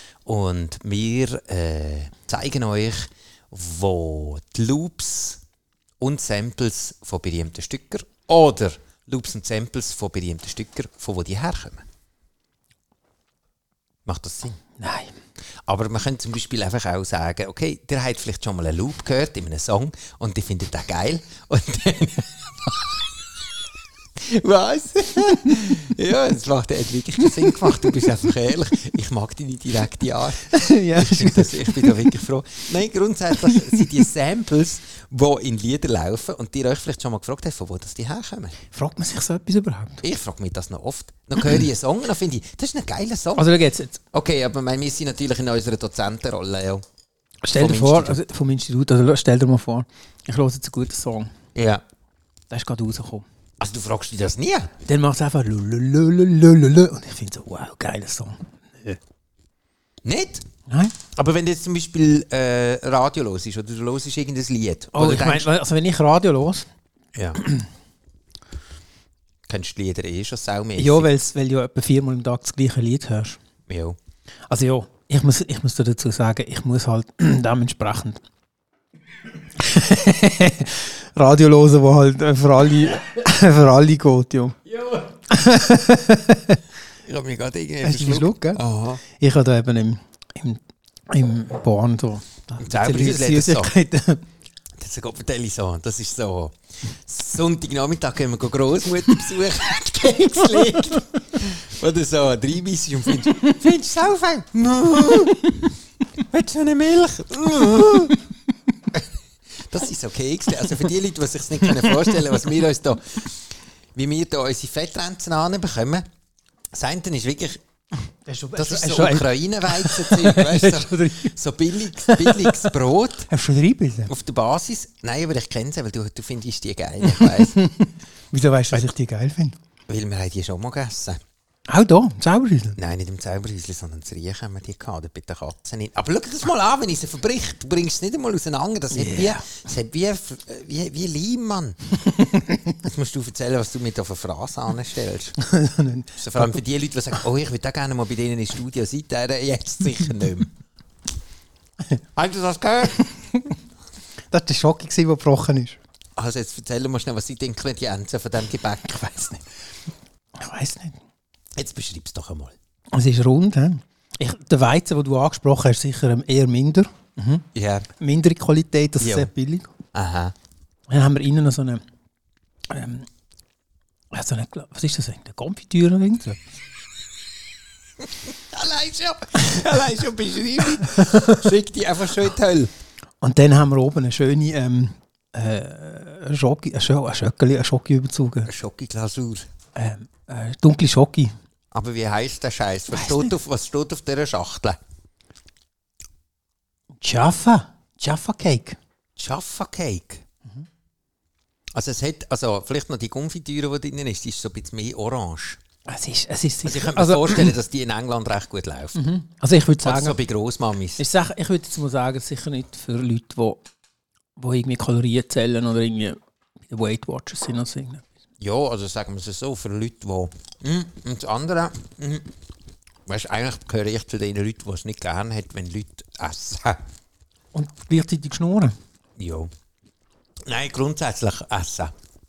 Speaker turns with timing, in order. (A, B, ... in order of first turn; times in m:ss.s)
0:00.2-0:05.4 A
0:06.0-0:11.8 A
0:14.0-0:14.6 A
0:14.8-0:15.1 B
0:15.7-0:22.8 A
0:24.2-0:38.5 A
0:30.5-0:32.1 B
0:33.4-0:33.7 B
0:38.7-0:40.0 B
0:40.0-0:43.5 A
0:43.4-0:44.0 B
0:44.1-0:46.8 A
0:47.4-0:51.3 B
0:47.5-0:48.2 A
0:51.5-0:51.8 A
0:52.5-0:53.2 B
0:53.6-0:54.7 A
0:54.9-0:59.0 B
1:00.0-1:00.4 A
1:00.7-1:00.9 B
1:01.1-1:05.5 A
1:04.9-1:06.7 B
1:07.1-1:07.4 A
1:09.5-1:11.1 A
1:10.8-1:13.4 B
1:13.7-1:14.0 A
1:14.5-1:18.2 B
1:19.6-1:24.6 B
1:25.3-1:26.6 B
1:27.0-1:29.0 A
1:27.8-1:34.2 B
1:32.6-1:33.7 A
1:34.8-1:48.2 A
1:48.9-1:56.0 A
1:56.7-1:57.6 A
1:58.2-2:01.4 B
1:58.6-2:03.3 A
2:02.0-2:02.7 B
2:03.3-2:04.1 B
2:04.1-2:07.6 A
2:07.1-2:09.6 B
2:09.9-2:11.2 A
2:11.7-2:12.8 B
2:12.8-2:22.0 A
2:18.9-2:19.4 B
2:22.8-2:25.4 A
2:25.4-2:26.6 B
2:26.2-2:30.5 A
2:32.1-2:33.1 A
2:34.3-2:35.8 B
2:36.2-2:39.4 A
2:40.4-2:41.0 B
2:41.6-2:42.5 A
2:42.9-2:47.4 B
2:47.5-2:47.9 A
2:48.0-2:49.7 B
2:49.0-2:49.3 A
2:49.9-2:50.3 A
2:50.9-2:51.8 B
2:52.7-2:53.1 B
2:54.1-2:56.4 B
2:58.0-3:02.7 A
3:00.9-3:01.3 B
3:03.2-3:08.5 B
3:08.4-3:09.5 A
3:09.8-3:11.3 B
3:11.7-3:14.8 A
3:12.9-3:13.3 B
3:17.0-3:18.8 B
3:19.2-3:20.2 A
3:21.7-3:25.6 A
3:25.9-3:27.5 B
3:26.6-3:29.0 A
3:28.9-3:30.2 B
3:29.8-3:31.0 A
3:31.0-3:33.6 B
3:34.4-3:38.0 B
3:38.4-3:42.3 A
3:43.0-3:46.8 A
3:47.5-3:48.7 B
3:49.2-3:49.5 A
3:50.4-3:51.9 A